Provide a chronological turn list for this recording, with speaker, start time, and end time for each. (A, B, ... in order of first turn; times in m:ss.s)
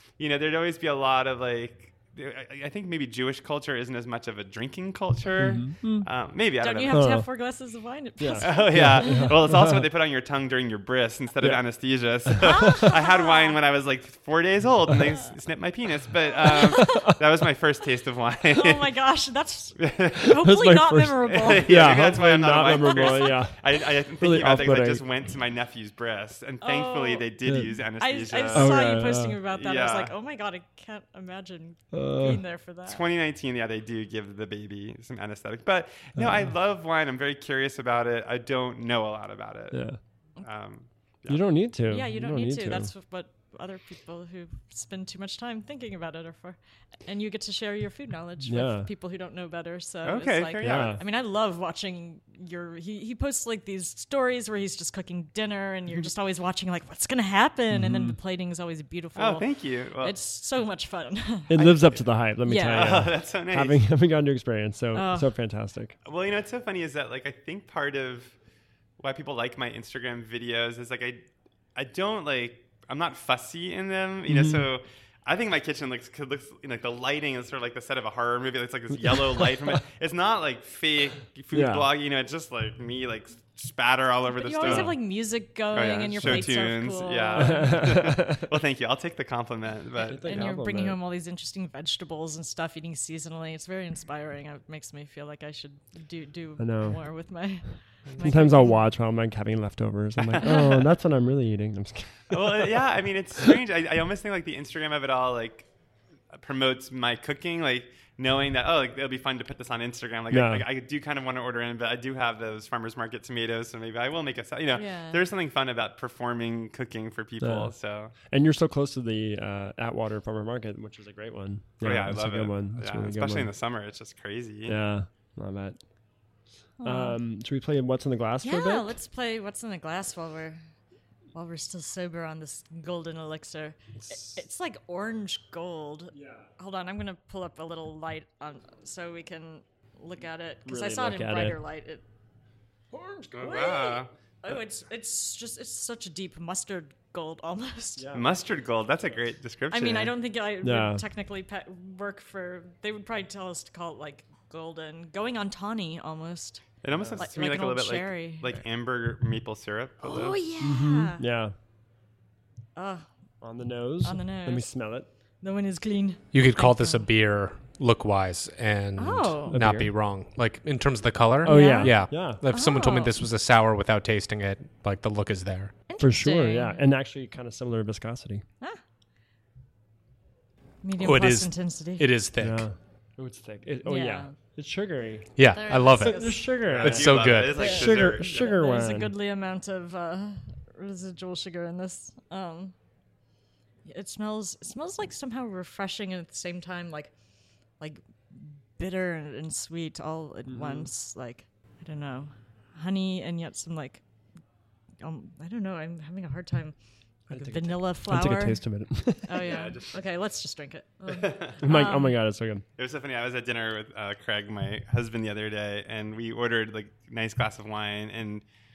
0:00.2-0:07.1 A
0:05.4-0:06.1 B
0:06.6-0:09.3 C
0:06.9-0:07.3 B
0:08.2-0:09.8 B
0:08.4-0:18.9 A
0:12.2-0:12.6 B
0:12.4-0:13.6 C
0:16.4-0:17.2 B
0:16.5-0:17.1 C
0:18.5-0:22.0 C
0:19.8-0:20.3 A
0:20.3-0:25.1 B
0:21.3-0:28.9 A
0:22.6-0:23.3 C
0:26.6-0:27.2 C
0:27.4-0:27.8 B
0:28.0-0:33.0 C
0:28.5-0:29.4 B
0:29.5-0:30.1 A
0:31.9-0:32.4 B
0:32.8-0:39.8 A
0:36.2-0:36.5 B
0:39.7-0:40.0 B
0:40.4-0:41.5 A
0:41.3-0:42.9 B
0:41.9-0:59.5 C
0:48.4-0:48.9 B
0:50.0-0:51.0 A
0:50.6-0:51.0 B
0:57.7-0:58.2 B
0:59.2-1:00.2 A
1:00.0-1:01.6 C
1:01.5-1:06.0 B
1:01.5-1:02.0 A
1:02.4-1:03.0 C
1:02.7-1:03.8 A
1:04.9-1:05.3 C
1:06.0-1:08.3 A
1:09.0-1:25.0 A
1:14.2-1:14.7 B
1:18.9-1:19.8 B
1:21.5-1:21.9 B
1:24.3-1:27.9 C
1:24.6-1:25.0 B
1:25.7-1:30.6 A
1:26.2-1:26.5 B
1:27.3-1:28.5 B
1:30.0-1:31.0 B
1:30.2-1:38.8 C
1:36.6-1:37.0 B
1:38.2-1:42.8 B
1:40.2-1:40.7 A
1:42.3-1:45.7 A
1:46.3-1:58.1 A
1:50.3-1:50.6 B
1:54.7-1:55.2 C
1:57.4-1:57.7 B
1:58.2-2:03.5 B
2:01.8-2:04.8 A
2:04.6-2:05.8 B
2:06.8-2:07.2 C
2:06.8-2:09.0 B
2:08.4-2:10.6 C
2:11.3-2:22.0 C
2:14.0-2:14.4 B
2:16.1-2:16.5 B
2:20.6-2:21.6 B
2:22.9-2:23.7 B
2:23.4-2:24.1 A
2:23.4-2:28.1 C
2:28.0-2:28.4 B
2:28.1-2:30.1 A
2:29.7-2:36.6 C
2:30.6-2:31.0 B
2:36.8-2:40.4 A
2:36.9-2:37.2 B
2:37.2-2:38.6 C
2:40.0-2:41.2 C
2:40.6-2:41.5 B
2:42.8-2:43.0 C
2:43.4-2:45.1 B
2:44.0-2:44.7 C
2:45.4-2:47.1 C
2:46.3-2:55.7 D
2:49.0-2:49.6 C
2:49.5-2:49.9 B
2:51.4-2:52.4 B
2:51.4-2:53.1 C
2:55.9-2:56.9 C
2:56.0-2:58.4 B
3:00.8-3:02.0 C
3:01.0-3:02.6 D
3:02.4-3:09.1 B
3:03.8-3:04.3 C
3:05.4-3:07.7 D
3:05.5-3:06.4 C
3:06.6-3:08.5 A
3:07.6-3:12.7 C
3:13.8-3:17.1 C
3:17.8-3:24.0 C
3:20.5-3:20.9 B
3:25.0-3:26.7 C
3:27.3-3:29.5 B
3:27.3-3:28.6 C
3:29.2-3:32.2 C
3:29.4-3:30.0 A
3:31.1-3:31.6 A
3:31.6-3:32.6 B
3:32.8-3:38.4 A